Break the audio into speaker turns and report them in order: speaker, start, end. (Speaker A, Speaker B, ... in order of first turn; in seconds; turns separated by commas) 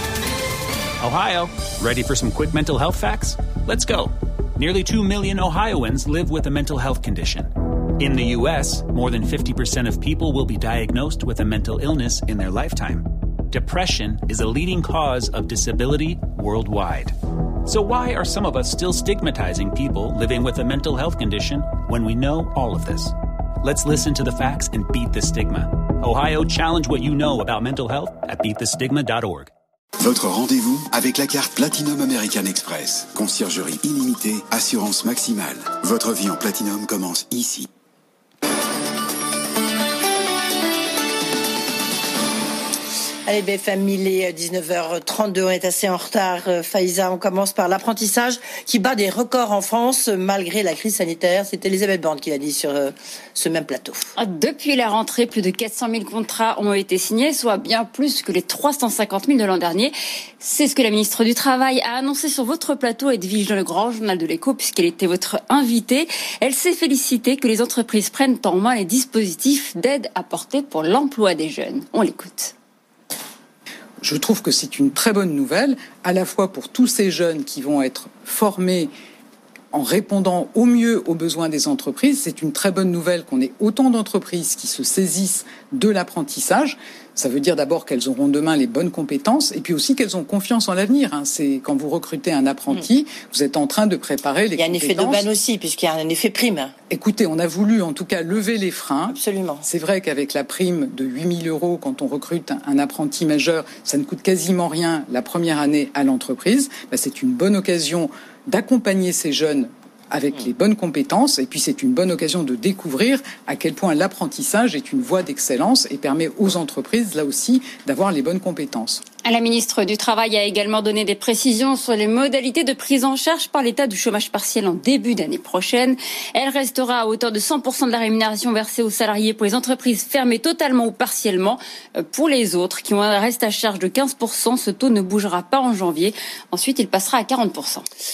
Speaker A: 1.0-17.1, Speaker A: 17.6-29.5, Speaker B: 30.0-37.6, Speaker C: 43.2-54.0, Speaker D: 54.2-72.5, Speaker E: 74.0-78.9, Speaker E: 79.7-95.3, Speaker C: 94.5-96.7, Speaker E: 96.9-119.0, Speaker C: 99.1-99.6, Speaker D: 119.2-137.8